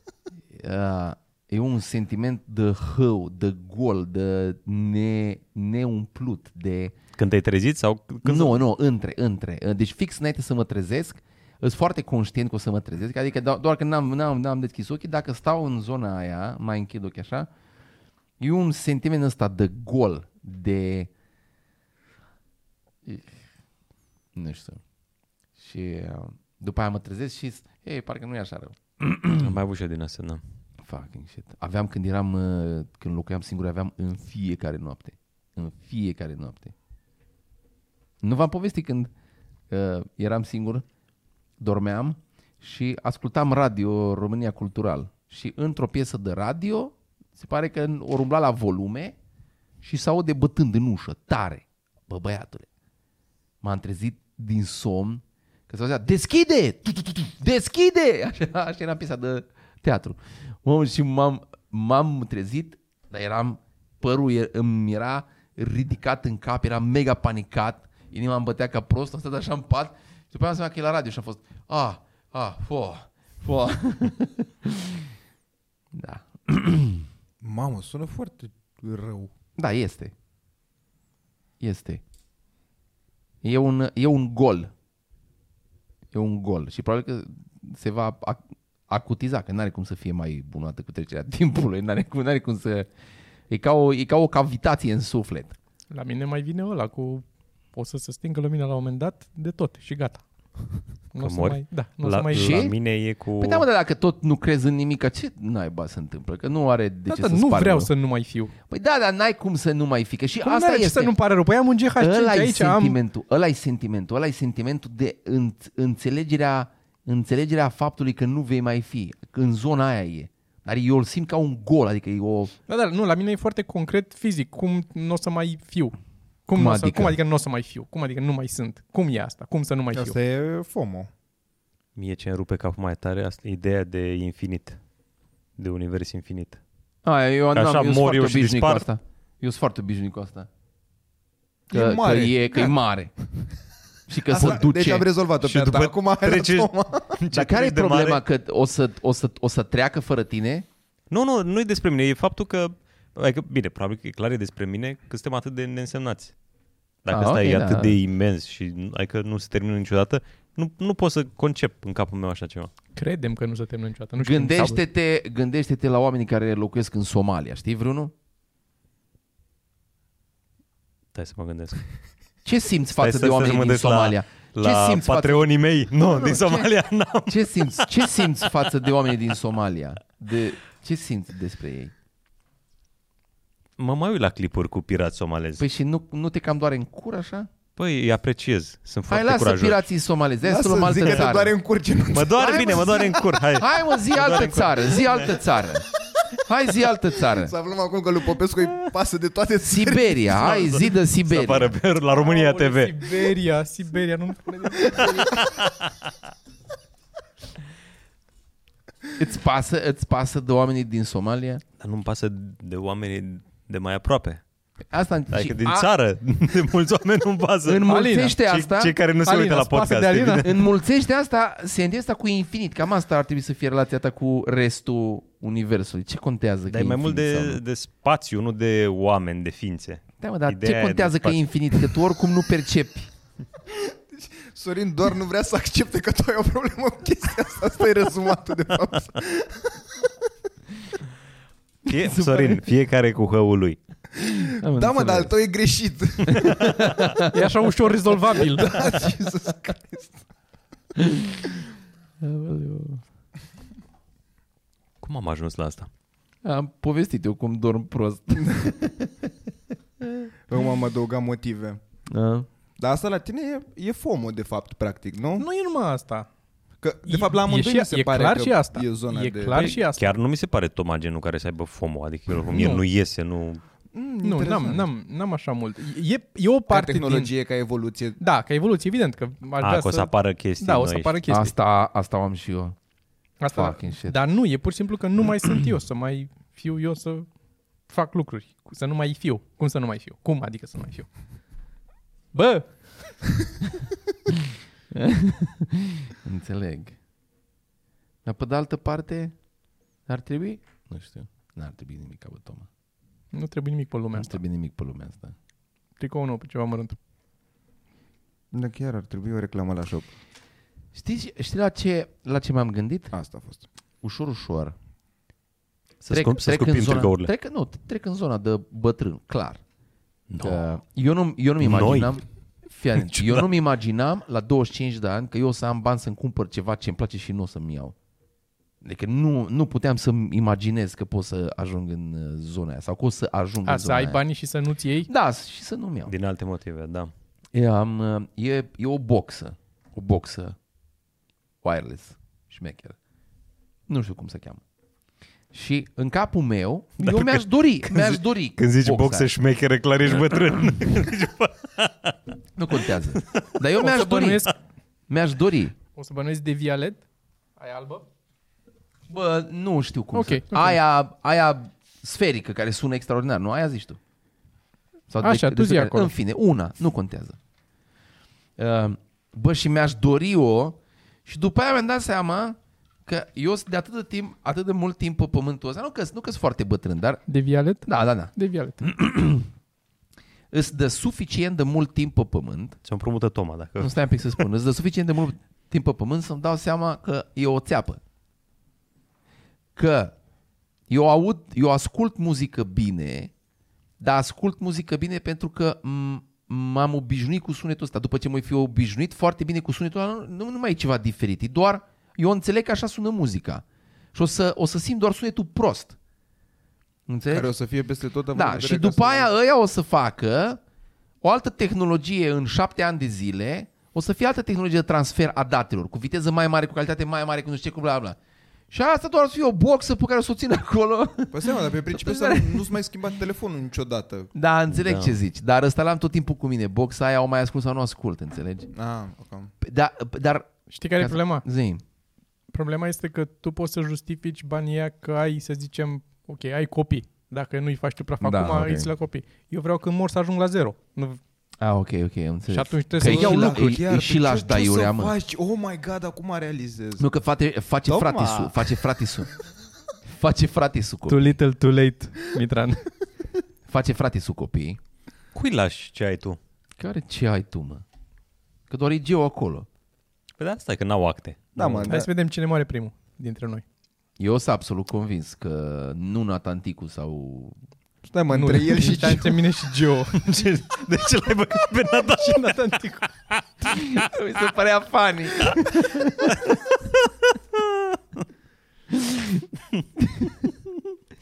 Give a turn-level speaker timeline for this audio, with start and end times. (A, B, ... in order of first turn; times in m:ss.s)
0:00.5-0:06.9 A
0:07.2-0:08.6 B
0:08.2-0:17.5 A
0:18.4-0:21.1 A
0:23.0-0:23.4 A
0:24.4-0:24.8 A
0:25.6-0:29.6 A
0:29.4-0:30.4 B
0:30.8-0:36.7 A
0:38.2-0:39.1 A
0:39.7-0:40.8 A
0:41.6-0:49.1 A
0:49.8-0:52.6 A
0:53.6-1:15.1 A
1:15.9-1:17.1 A
1:17.4-1:19.3 C
1:19.6-1:20.1 A
1:21.6-1:22.0 A
1:23.4-1:24.7 A
1:26.1-1:32.9 A
1:33.5-1:35.5 A
1:35.9-1:40.2 D
1:41.1-1:42.6 D
1:41.2-1:43.6 B
1:42.3-1:42.8 A
1:43.4-1:47.9 A
1:47.1-1:48.5 D
1:48.7-1:51.1 A
1:50.4-1:53.0 D
1:52.0-2:02.5 A
2:02.7-2:06.0 D
2:06.5-2:10.1 D
2:06.5-2:07.2 A
2:09.9-2:11.1 C
2:11.9-2:14.8 B
2:15.6-2:16.6 B
2:17.0-2:20.5 A
2:17.5-2:18.9 B
2:21.7-2:22.7 C
2:21.7-2:23.3 A
2:24.1-2:25.1 A
2:24.3-2:27.2 C
2:25.4-2:28.2 B
2:27.3-2:30.6 A
2:31.1-2:36.4 B
2:37.0-2:42.7 B
2:37.1-2:38.0 A
2:42.9-2:44.8 D
2:44.2-2:48.1 A
2:51.1-2:51.9 B
2:52.4-2:56.7 A
2:53.0-2:58.5 B
2:57.2-3:01.9 A
3:03.8-3:05.6 B
3:05.6-3:07.5 A
3:07.8-3:09.9 B
3:09.1-3:11.5 A
3:10.4-3:13.0 C
3:12.1-3:15.3 B
3:12.4-3:17.5 A
3:17.4-3:20.3 C
3:19.6-3:21.7 A
3:20.3-3:23.1 B
3:22.2-3:25.5 D
3:25.0-3:26.1 B
3:29.2-3:31.6 A
3:31.8-3:34.4 B
3:34.9-3:35.9 A
3:35.3-3:40.6 B
3:37.6-3:38.9 A
3:37.8-3:38.4 D
3:39.2-3:40.5 D
3:40.4-3:47.6 A
3:46.7-3:52.0 B
3:50.2-3:53.1 A
3:53.8-3:59.9 C
4:01.9-4:02.6 A
4:01.9-4:03.8 B
4:04.2-4:07.0 C
4:04.6-4:05.3 A
4:06.3-4:07.5 A
4:07.3-4:09.0 D
4:08.4-4:10.2 C
4:11.0-4:11.6 A
4:12.2-4:13.0 A
4:15.0-4:15.9 B
4:16.4-4:19.3 A
4:20.5-4:21.8 C
4:22.1-4:22.5 A
4:22.8-4:25.4 C
4:25.4-4:26.3 D
4:26.8-4:29.8 C
4:27.1-4:30.1 D
4:29.5-4:33.6 B
4:32.5-4:32.8 D
4:33.9-4:34.9 C
4:34.2-4:37.3 D
4:36.7-4:38.2 C
4:38.2-4:41.5 D
4:39.6-4:41.2 B
4:41.3-4:42.8 A
4:43.4-4:47.3 D
4:43.5-4:44.2 A
4:47.9-4:51.1 D
4:52.3-4:53.4 D
4:54.9-4:57.0 A
4:58.2-4:59.4 A
5:00.1-5:02.7 A
5:03.3-5:04.4 D
5:04.1-5:05.4 A
5:06.0-5:07.0 D
5:08.5-5:10.1 C
5:10.9-5:13.1 A
5:13.1-5:13.6 C
5:14.0-5:14.8 A
5:16.0-5:17.3 B
5:16.1-5:19.6 A
5:20.3-5:20.6 B
5:20.4-5:27.9 A
5:21.6-5:22.2 B
5:23.0-5:23.5 B
5:28.8-5:34.2 A
5:33.6-5:35.1 D
5:35.1-5:36.1 A
5:36.1-5:37.1 B
5:37.5-5:40.6 A
5:41.6-5:43.0 A
5:43.9-5:44.6 A
5:45.5-5:49.3 A
5:47.0-5:52.2 B
5:52.6-5:54.5 A
5:52.7-5:53.5 B
5:53.8-5:54.5 D
5:55.1-5:55.8 A
5:55.9-5:57.0 D
5:57.6-5:58.1 D
5:59.1-6:04.0 A
6:00.1-6:00.8 D
6:05.1-6:07.4 A
6:05.2-6:06.1 D
6:08.6-6:17.3 A
6:17.3-6:18.9 D
6:17.8-6:19.5 A
6:20.5-6:22.8 A
6:22.8-6:24.5 B
6:23.8-6:28.0 A
6:29.8-6:30.1 A
6:30.9-6:33.3 A
6:34.0-6:46.0 A
6:47.1-6:47.5 A
6:47.3-6:49.3 C
6:48.3-6:50.6 A
6:51.2-6:58.2 A
6:58.7-7:02.7 A
7:01.3-7:04.3 C
7:04.4-7:08.7 A
7:04.7-7:05.2 B
7:08.7-7:09.5 C
7:09.6-7:11.8 A
7:10.7-7:11.4 D
7:12.5-7:21.2 D
7:18.2-7:18.9 A
7:21.6-7:25.1 A
7:22.5-7:23.7 D
7:23.0-7:27.1 C
7:27.0-7:29.3 A
7:27.9-7:28.8 C
7:30.1-7:31.2 A
7:31.1-7:32.9 D
7:33.7-7:34.8 A
7:35.3-7:36.4 B
7:36.8-7:37.8 A
7:38.7-7:39.7 A
7:40.4-7:41.9 B
7:41.6-7:42.1 C
7:41.9-7:43.6 D
7:44.2-7:47.6 A
7:48.1-7:49.4 C
7:48.3-7:50.2 D
7:50.1-7:52.7 B
7:52.2-7:53.1 D
7:53.3-7:54.1 B
7:53.7-7:56.5 A
7:56.3-7:56.5 B
7:57.5-7:58.0 B
7:58.9-7:59.4 A
8:00.0-8:00.7 A